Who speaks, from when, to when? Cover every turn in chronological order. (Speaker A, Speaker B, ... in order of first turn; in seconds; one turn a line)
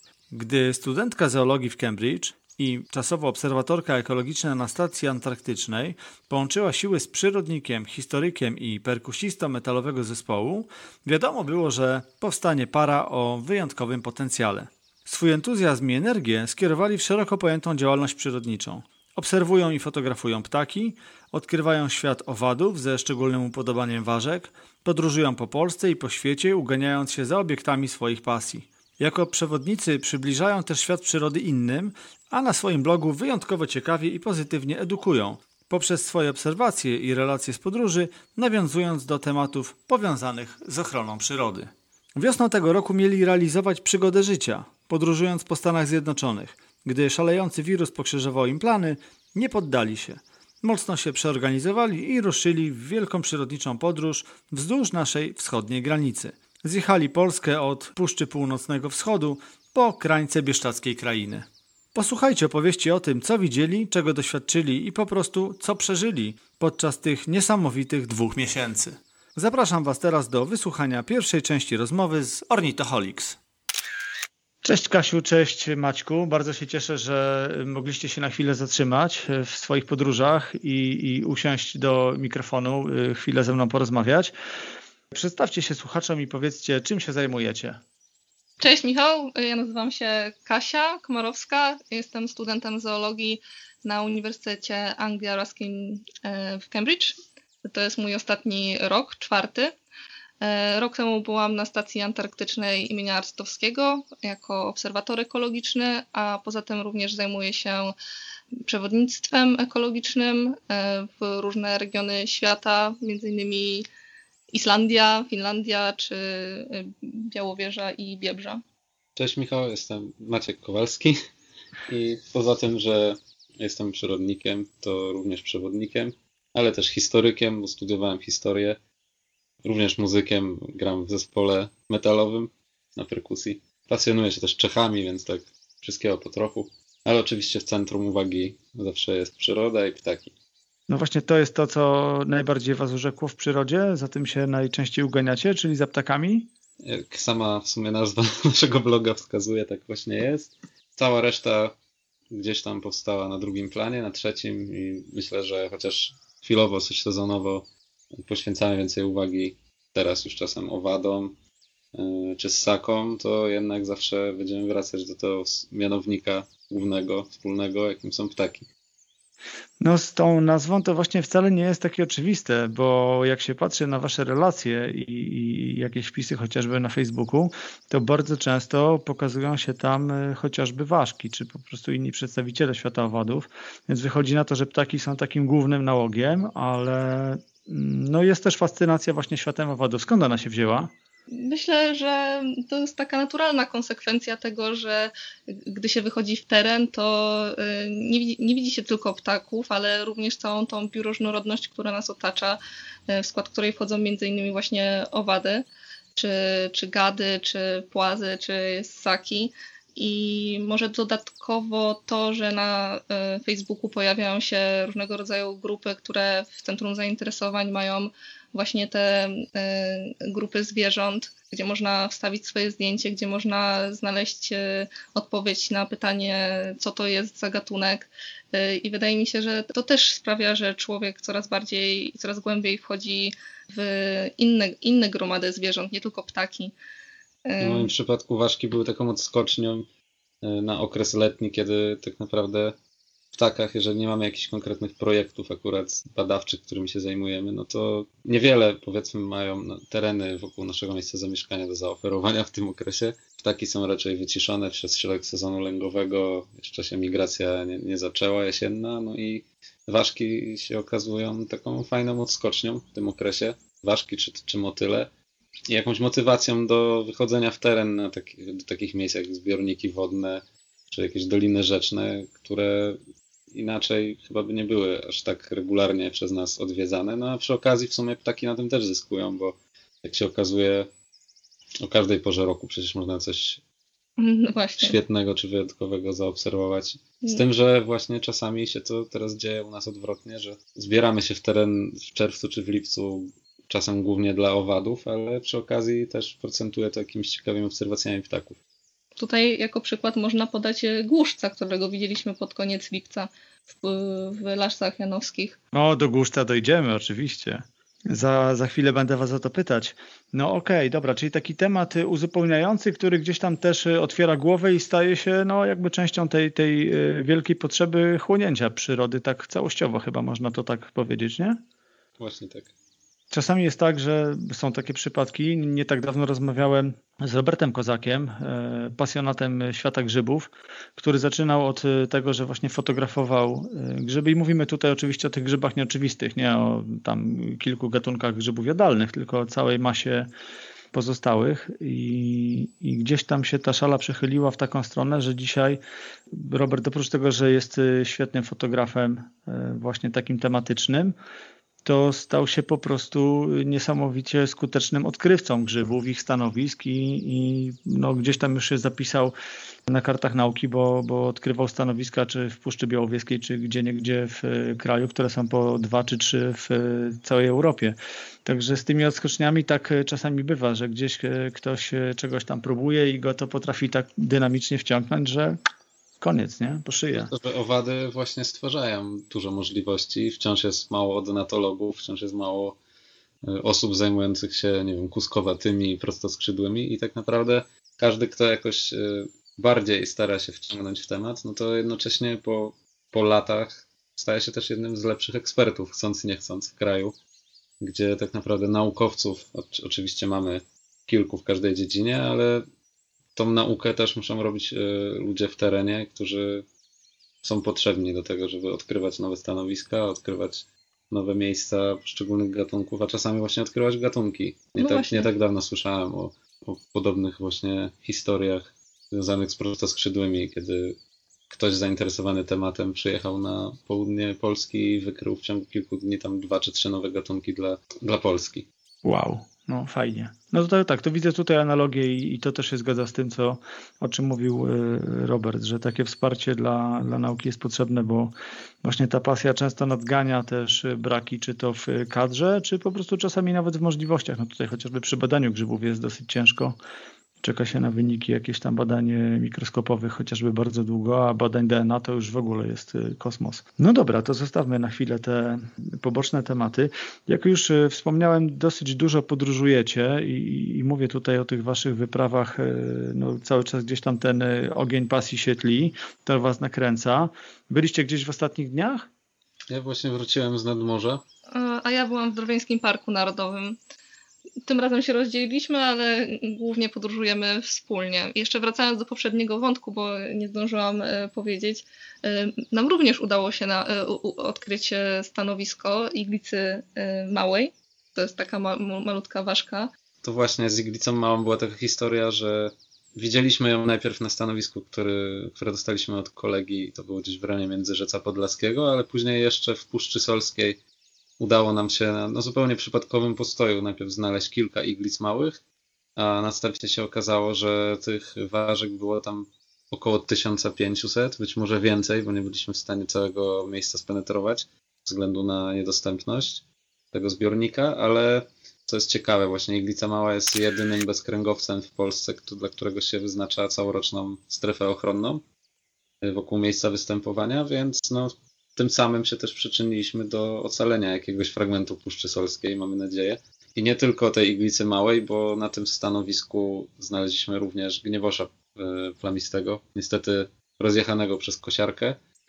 Speaker A: 0.3-73.4
Speaker A: 74.6-84.3
Speaker A: 85.1-87.8
Speaker B: 88.6-99.7
Speaker B: 100.4-107.9
Speaker B: 108.6-113.8
Speaker B: 114.5-118.6
Speaker C: 119.2-121.2
Speaker C: 121.9-128.8
Speaker C: 129.6-140.3
Speaker A: 140.9-146.5
Speaker C: 146.8-151.8
Speaker C: 152.3-161.3
Speaker C: 161.9-168.7
Speaker A: 169.8-190.9
Speaker B: 191.3-236.7
Speaker B: 237.4-237.9
Speaker C: 237.6-239.9
Speaker C: 240.4-242.8
Speaker C: 243.3-265.1
Speaker C: 265.7-273.0
Speaker C: 273.5-280.9
Speaker C: 281.8-283.6
Speaker B: 284.2-284.9
Speaker C: 284.8-298.6
Speaker B: 299.2-305.6
Speaker A: 305.7-321.6
Speaker C: 322.2-322.7
Speaker A: 323.3-340.3
Speaker A: 340.9-345.8
Speaker A: 346.3-351.1
Speaker A: 351.8-359.3
Speaker A: 359.9-375.6
Speaker A: 376.2-377.3
Speaker C: 377.3-382.8
Speaker C: 383.4-397.1
Speaker C: 397.8-402.6
Speaker C: 403.3-406.6
Speaker C: 407.4-421.0
Speaker B: 414.8-415.3
Speaker C: 421.5-428.7
Speaker A: 429.0-438.3
Speaker A: 438.8-446.8
Speaker A: 447.4-469.1
Speaker C: 469.7-471.2
Speaker B: 471.5-473.8
Speaker B: 474.6-489.9
Speaker C: 490.2-500.8
Speaker C: 501.4-505.6
Speaker C: 506.1-525.4
Speaker C: 526.2-542.2